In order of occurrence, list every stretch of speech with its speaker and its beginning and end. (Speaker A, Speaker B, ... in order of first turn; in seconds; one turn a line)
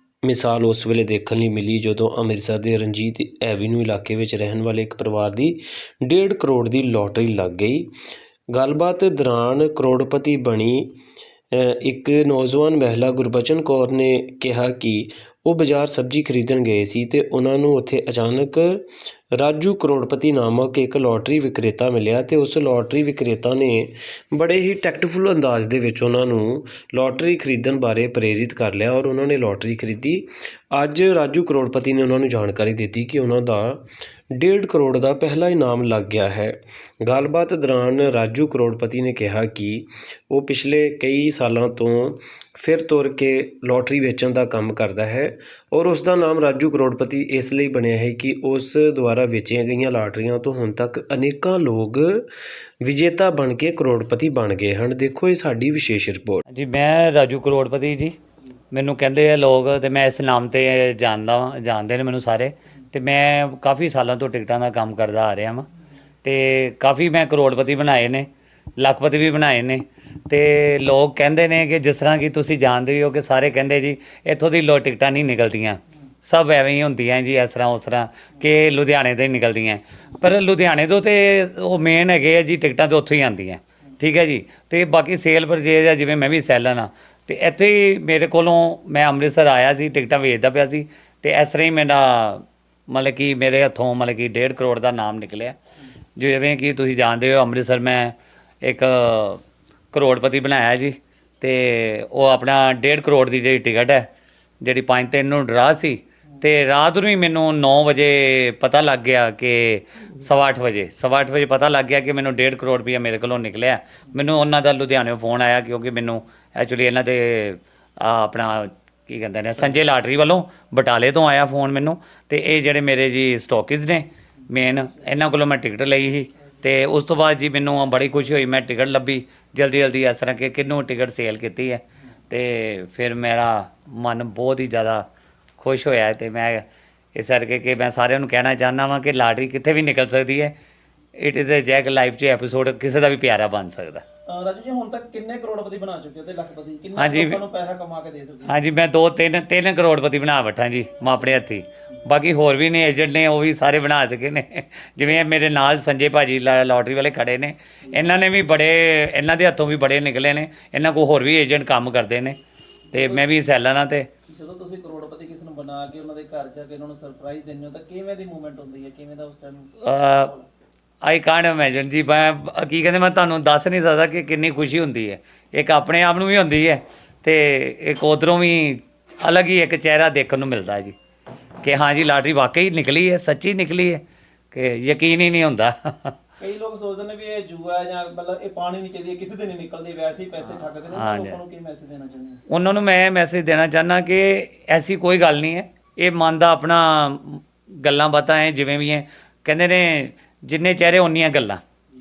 Speaker A: 0.2-7.9
Speaker A: 8.5-11.0
Speaker A: 11.5-18.9
Speaker A: 19.4-52.3
Speaker A: 52.8-56.4
Speaker B: 56.5-58.2
Speaker B: 58.7-65.7
Speaker B: 66.2-95.6
Speaker B: 96.2-99.4
Speaker B: 99.9-104.1
Speaker B: 104.6-135.1
Speaker B: 135.6-140.6
Speaker B: 141.2-144.0
Speaker C: 144.3-148.6
Speaker B: 147.0-147.4
Speaker B: 148.4-162.4
Speaker C: 162.9-163.3
Speaker B: 162.9-164.1
Speaker C: 164.3-170.5
Speaker B: 169.8-170.3
Speaker B: 171.0-180.9
Speaker B: 181.6-186.2
Speaker C: 186.4-192.4
Speaker B: 190.4-191.4
Speaker B: 192.5-201.6